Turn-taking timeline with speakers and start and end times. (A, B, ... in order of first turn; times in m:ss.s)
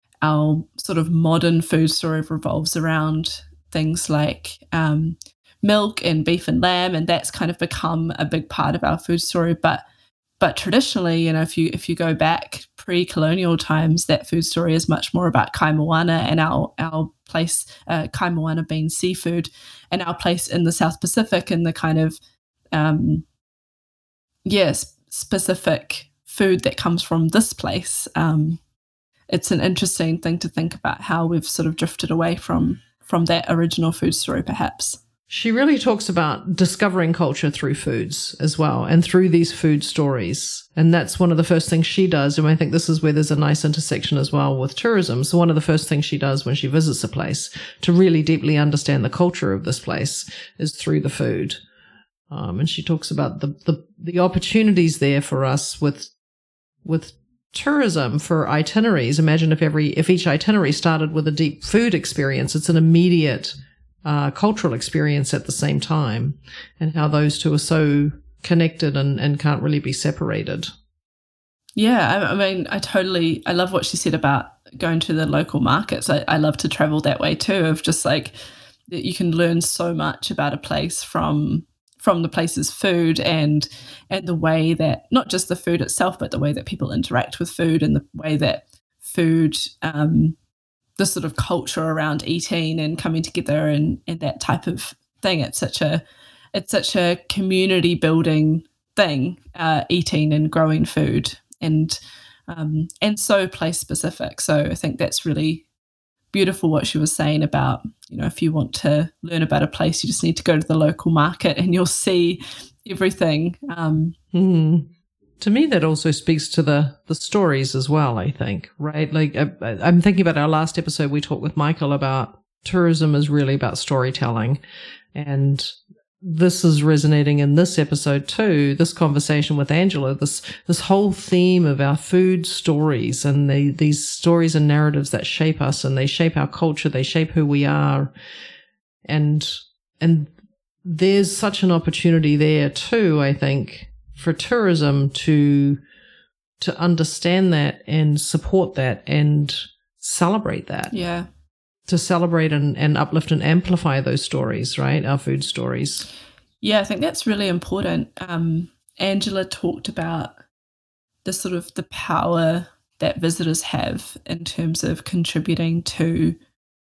0:00.2-0:09.8 A
0:10.4-0:22.2 A
0:22.7-0:23.2 A
0:24.4-0:28.6 A
0:29.3-0:35.0 A
0:35.3-0:51.6 B
0:52.3-0:56.1 B
0:56.8-1:03.5 B
1:04.0-1:10.7 B
1:11.8-1:18.4 A
1:18.9-1:30.4 A
1:31.0-1:36.0 A
1:36.5-1:45.6 A
1:46.3-1:54.2 A
1:54.3-1:54.9 B
1:55.4-2:04.6 B
2:05.1-2:18.1 B
2:19.1-2:20.3 B
2:20.8-2:25.8 B
2:26.6-2:30.9 B
2:30.9-2:31.3 A
2:31.9-2:36.1 B
2:36.6-2:40.3 A
2:41.2-2:46.4 A